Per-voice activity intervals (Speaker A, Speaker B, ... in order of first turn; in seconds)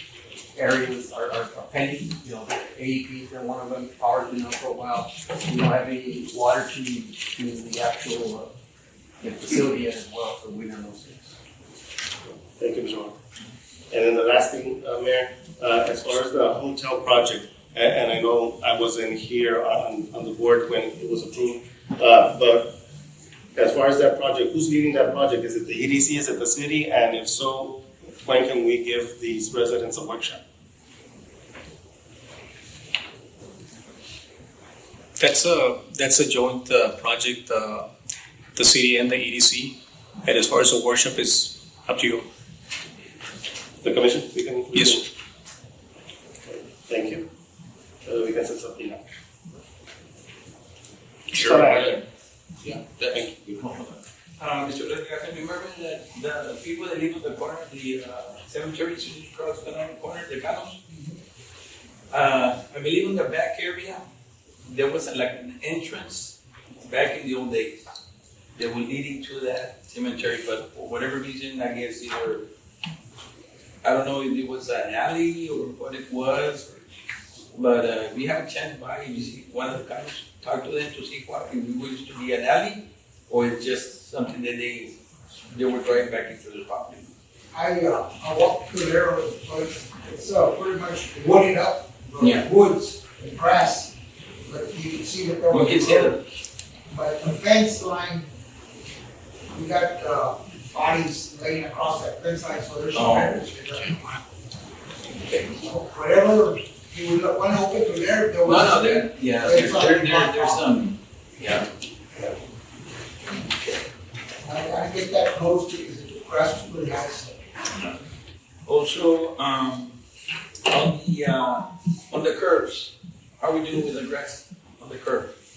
Speaker A: 0.6-8.5, 9.2-11.4
Speaker B: 12.6-13.1, 13.9-22.7, 23.6-30.4, 43.8-45.1, 46.5-47.2, 48.1-49.0, 51.3-52.0, 53.1-53.7
Speaker C: 35.2-37.9, 38.6-39.7, 40.2-42.2, 44.7-45.0
Speaker D: 51.6-52.0, 52.6-53.3, 54.4-60.8, 62.1-64.0, 64.7-67.8, 68.6-72.4, 73.8-76.8, 77.5-85.0, 85.5-87.1, 92.2-92.5, 95.5-96.2, 102.9-103.4, 105.2-105.5, 108.5-111.7, 118.7-120.0, 120.7-125.3
Speaker E: 87.5-93.9, 94.5-96.2, 96.9-98.3, 99.5-104.2, 105.6-110.8, 114.4-117.4